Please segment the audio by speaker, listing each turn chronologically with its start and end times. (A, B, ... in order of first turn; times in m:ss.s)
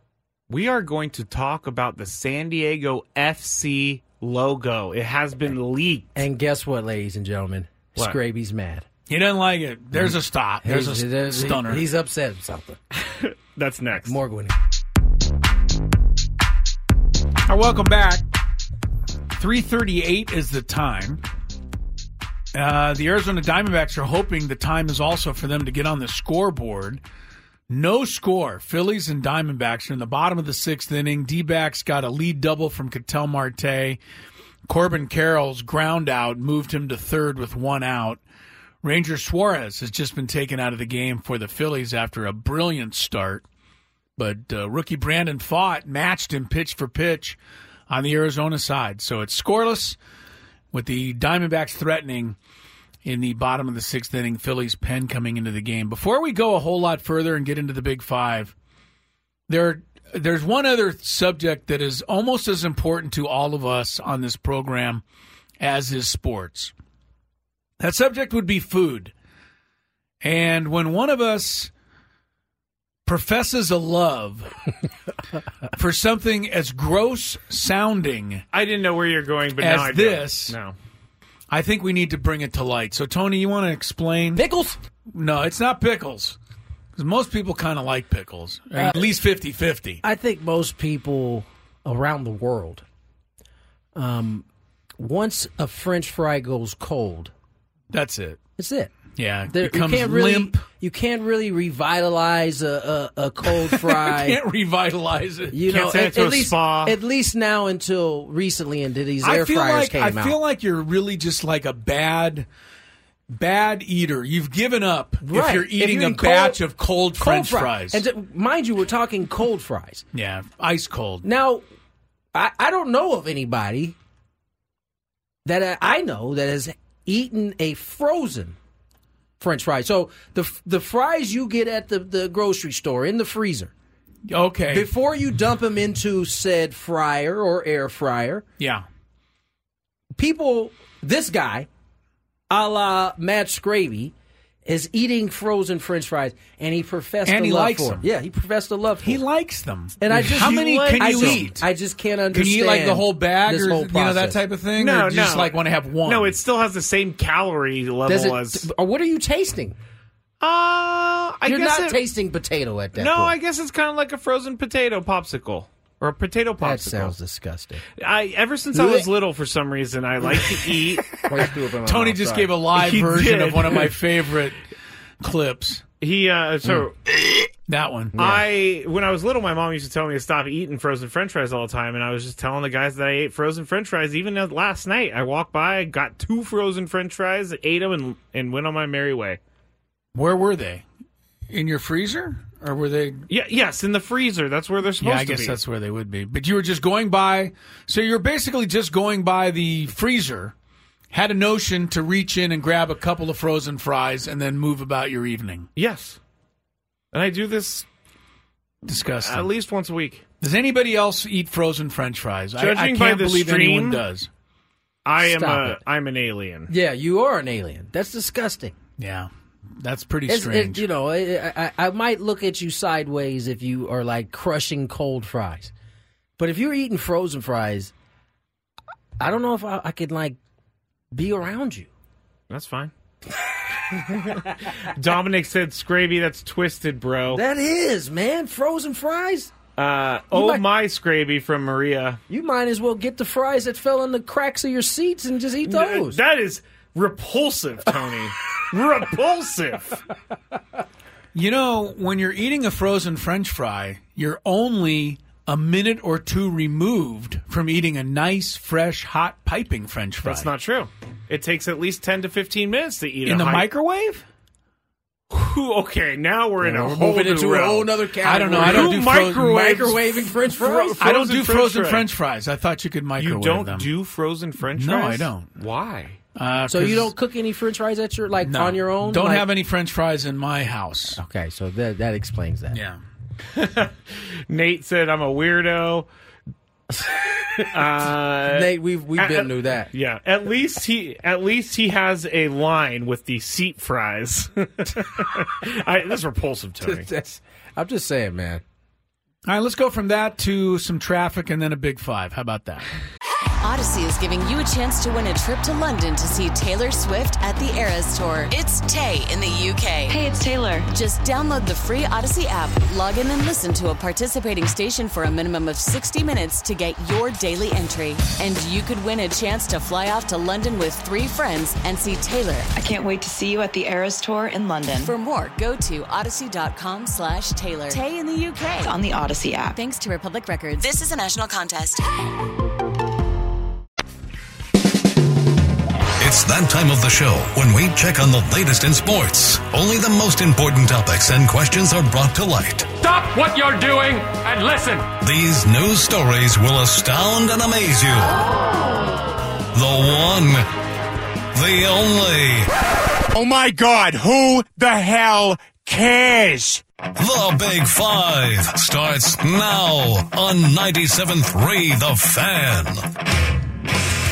0:00.5-0:06.2 A
0:06.2-0:08.9 B
0:09.1-0:11.8 C
0:09.9-0:12.8 B
0:13.1-0:14.2 A
0:14.0-0:14.6 B
0:17.5-0:18.3 C
0:19.4-0:21.2 C
0:22.5-0:27.0 C
0:27.7-0:34.0 C
0:34.7-0:38.2 C
0:38.8-0:43.4 C
0:44.2-0:47.4 C
0:47.9-0:50.0 C
0:50.7-0:52.4 C
0:53.0-0:58.5 C
0:59.5-1:05.0 C
1:05.6-1:06.7 C
1:07.8-1:09.1 C
1:10.2-1:11.7 C
1:13.1-1:14.5 C
1:15.7-1:18.4 C
1:18.5-1:20.8 A
1:19.6-1:20.6 C
1:21.5-1:24.4 C
1:24.4-1:24.8 B
1:25.1-1:26.4 C
1:27.0-1:30.0 C
1:30.0-1:32.8 B
1:34.0-1:34.4 B
1:35.0-1:37.3 B
1:37.9-1:38.4 C
1:38.6-1:39.0 B
1:39.2-1:40.6 C
1:39.5-1:44.4 B
1:43.6-1:45.6 C
1:45.5-1:50.4 B
1:45.7-1:47.0 A
1:49.2-1:52.5 C
1:53.3-1:58.0 C
1:55.2-1:56.6 B
1:57.2-2:00.0 B
2:00.1-2:01.2 C
2:01.2-2:01.6 B
2:02.3-2:04.0 B
2:05.5-2:08.6 B
2:09.4-2:13.7 B
2:14.3-2:14.9 C
2:14.7-2:18.4 B
2:18.6-2:18.8 C
2:20.2-2:21.7 B
2:22.5-2:24.1 B
2:24.7-2:29.2 B
2:27.3-2:28.0 C
2:29.0-2:31.6 C
2:30.0-2:34.4 B
2:30.4-2:31.5 A
2:32.3-2:36.4 C
2:34.8-2:38.7 A
2:38.1-2:39.8 B
2:40.4-2:42.0 A
2:41.5-2:43.4 B
2:43.0-2:47.1 A
2:46.6-2:47.8 B
2:48.0-2:51.2 A
2:48.7-2:49.1 B
2:51.1-2:52.6 B
2:51.8-2:54.6 C
2:52.7-2:54.0 A
2:55.2-2:55.8 C
2:56.0-2:57.0 A
2:57.7-2:58.3 C
2:58.2-3:09.4 A
3:10.2-3:10.8 C
3:11.5-3:13.2 C
3:13.3-3:15.6 A
3:15.0-3:20.5 C
3:21.1-3:25.7 C
3:25.8-3:26.2 A
3:27.1-3:27.8 A
3:28.8-3:29.5 C
3:29.2-3:30.2 A
3:30.4-3:34.3 C
3:32.6-3:34.0 A
3:35.0-3:36.7 A
3:35.2-3:35.8 B
3:36.7-3:38.8 B
3:39.0-3:40.8 C
3:40.3-3:45.7 B
3:46.4-3:47.9 B
3:49.2-3:50.4 B
3:51.1-3:51.9 B
3:52.5-3:52.9 A
3:54.2-3:57.4 A
3:57.3-3:59.5 B
3:59.8-4:02.2 A
4:00.3-4:00.6 B
4:02.3-4:06.2 B
4:05.6-4:10.0 A
4:11.3-4:20.5 C
4:20.2-4:23.7 A
4:23.3-4:24.2 C
4:25.3-4:28.0 A
4:26.6-4:31.0 B
4:28.2-4:29.8 C
4:28.5-4:32.1 A
4:31.0-4:33.9 C
4:33.2-4:36.2 A
4:34.8-4:35.5 C
4:36.4-4:37.1 C
4:36.7-4:39.5 B
4:38.4-4:41.2 C
4:41.2-4:42.8 B
4:42.7-4:43.0 C
4:43.5-4:46.1 A
4:47.6-4:57.1 A
4:48.5-4:49.9 B
4:56.8-4:58.6 B
4:59.4-5:02.9 C
5:03.6-5:10.1 D
5:10.1-5:10.9 E
5:10.9-5:22.7 D
5:22.8-5:25.1 E
5:25.0-5:28.9 D
5:28.8-5:29.8 E
5:29.8-5:32.0 D
5:36.2-5:42.9 F
5:43.0-5:45.1 G
5:45.2-5:48.5 F
5:49.7-5:50.7 F
5:51.5-5:52.7 F
5:53.3-5:56.8 H
5:57.2-6:03.0 F